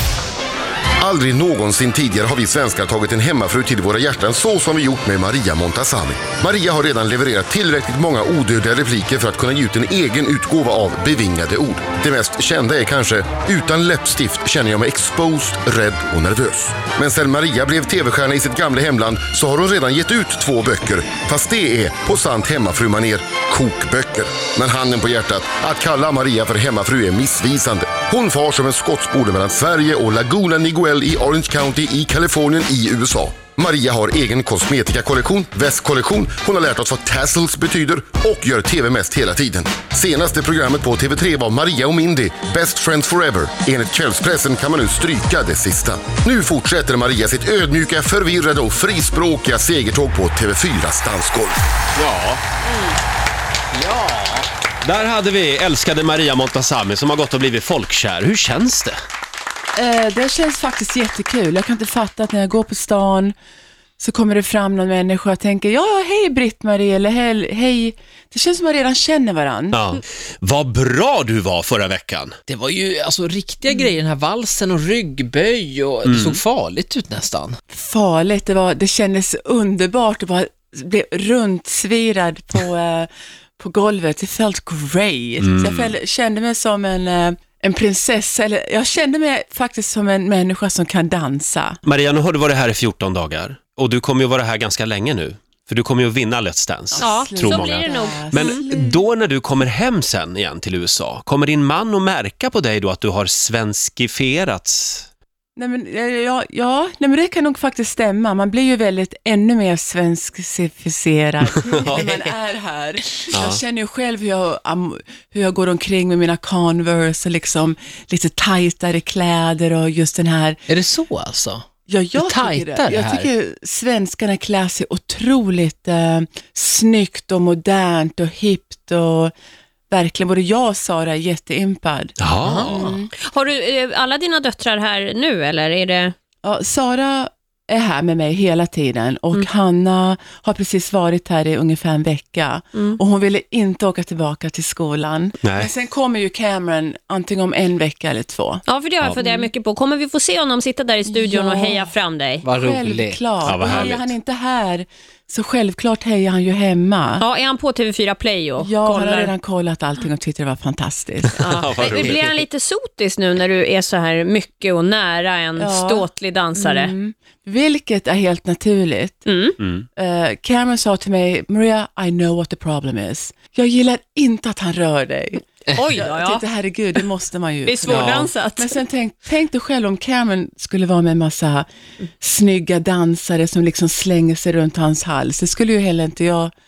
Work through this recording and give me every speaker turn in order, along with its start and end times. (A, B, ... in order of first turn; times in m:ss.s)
0:01.0-0:51.6 A
0:52.0-0:52.4 B
0:53.7-0:54.5 C
0:54.8-0:59.0 B
0:59.8-1:03.4 D
1:04.0-1:09.8 D
1:09.7-1:12.4 B
1:12.5-1:17.6 C
1:16.1-1:16.4 B
1:17.7-1:31.8 D
1:25.4-1:25.9 B
1:31.8-1:45.1 B
1:36.9-1:39.0 D
1:37.0-1:38.6 E
1:45.6-2:00.6 D
1:51.5-1:52.3 B
1:53.3-1:53.6 B
2:00.7-2:03.3 C
2:01.9-2:09.3 D
2:09.9-2:13.1 D
2:12.2-2:12.9 B
2:12.4-2:12.9 C
2:13.2-2:16.1 E
2:16.4-2:28.6 D
2:25.4-2:25.7 B
2:28.7-2:32.5 E
2:29.0-2:29.4 B
2:31.1-2:32.0 D
2:32.4-2:33.7 C
2:32.5-2:37.2 D
2:33.4-2:34.1 B
2:37.2-2:39.3 E
2:38.6-2:41.4 D
2:41.3-2:42.4 B
2:41.4-2:46.9 E
2:45.6-2:49.3 D
2:49.3-2:49.6 E
2:49.6-2:49.9 B
2:50.0-2:55.5 D
2:55.7-2:56.4 E
2:56.0-3:01.7 D
2:57.6-2:58.8 E
2:57.9-2:58.3 B
3:02.2-3:06.5 D